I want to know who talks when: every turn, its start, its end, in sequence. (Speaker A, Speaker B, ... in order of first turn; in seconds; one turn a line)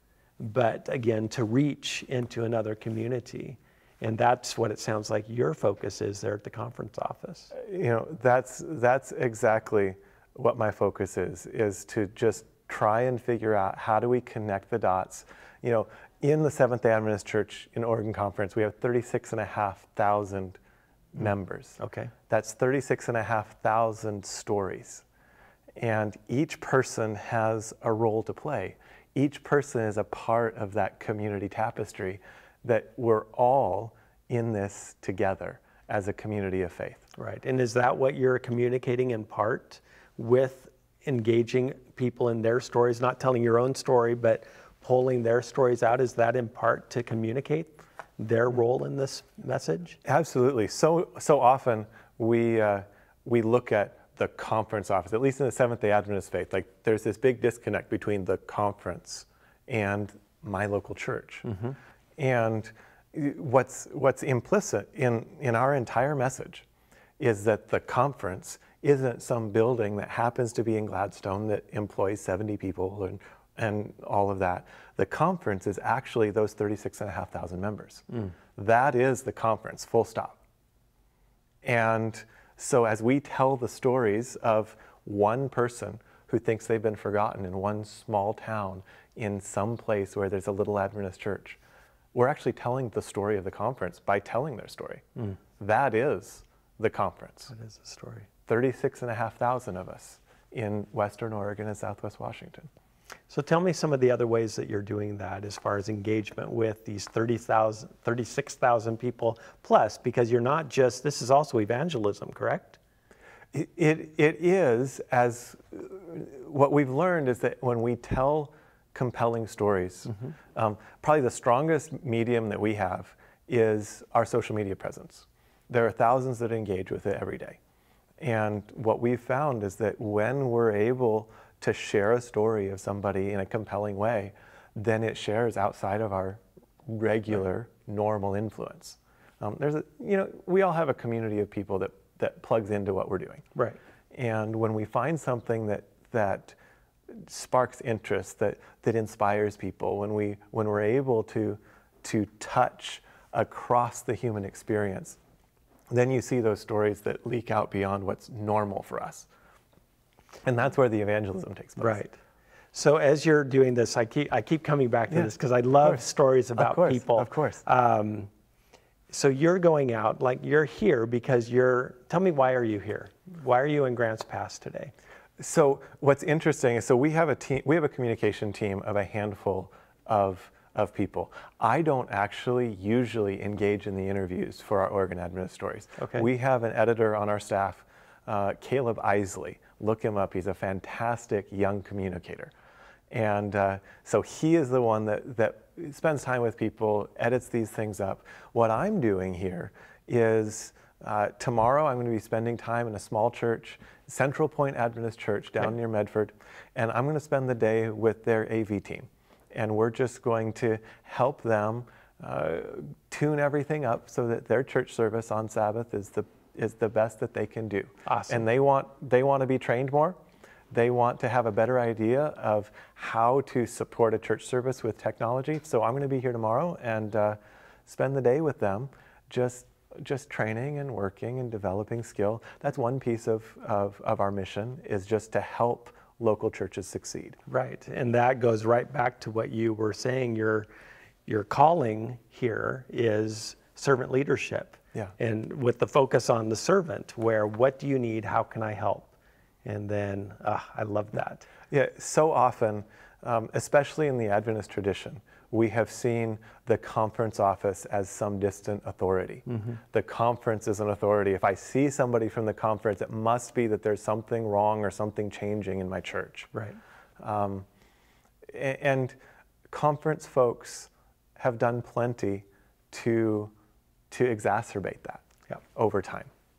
Speaker A: 0.4-7.5
Speaker B: 7.5-20.6
Speaker B: 21.1-25.0
Speaker A: 21.8-22.1
Speaker B: 25.8-37.0
Speaker A: 37.2-50.0
Speaker B: 50.0-61.5
Speaker A: 61.5-61.8
Speaker B: 62.2-66.7
Speaker B: 67.2-80.4
Speaker B: 81.6-91.6
Speaker B: 92.1-95.1
Speaker B: 95.6-97.5
Speaker A: 97.5-98.3
Speaker B: 98.5-102.7
Speaker A: 103.3-112.8
Speaker B: 113.5-127.6
Speaker B: 128.2-143.5
Speaker B: 144.1-146.6
Speaker B: 147.1-155.2
Speaker B: 155.9-159.3
Speaker B: 160.4-162.0
Speaker A: 161.8-162.2
Speaker A: 162.7-168.3
Speaker B: 166.6-167.6
Speaker A: 169.1-174.9
Speaker B: 175.4-192.5
Speaker A: 186.0-186.3
Speaker B: 193.1-220.2
Speaker A: 218.1-218.4
Speaker B: 220.7-237.4
Speaker A: 237.5-240.7
Speaker A: 241.3-249.1
Speaker A: 249.7-251.5
Speaker B: 251.7-266.5
Speaker A: 259.5-259.8
Speaker B: 267.2-267.7
Speaker B: 268.5-269.2
Speaker B: 269.7-273.5
Speaker B: 274.1-276.3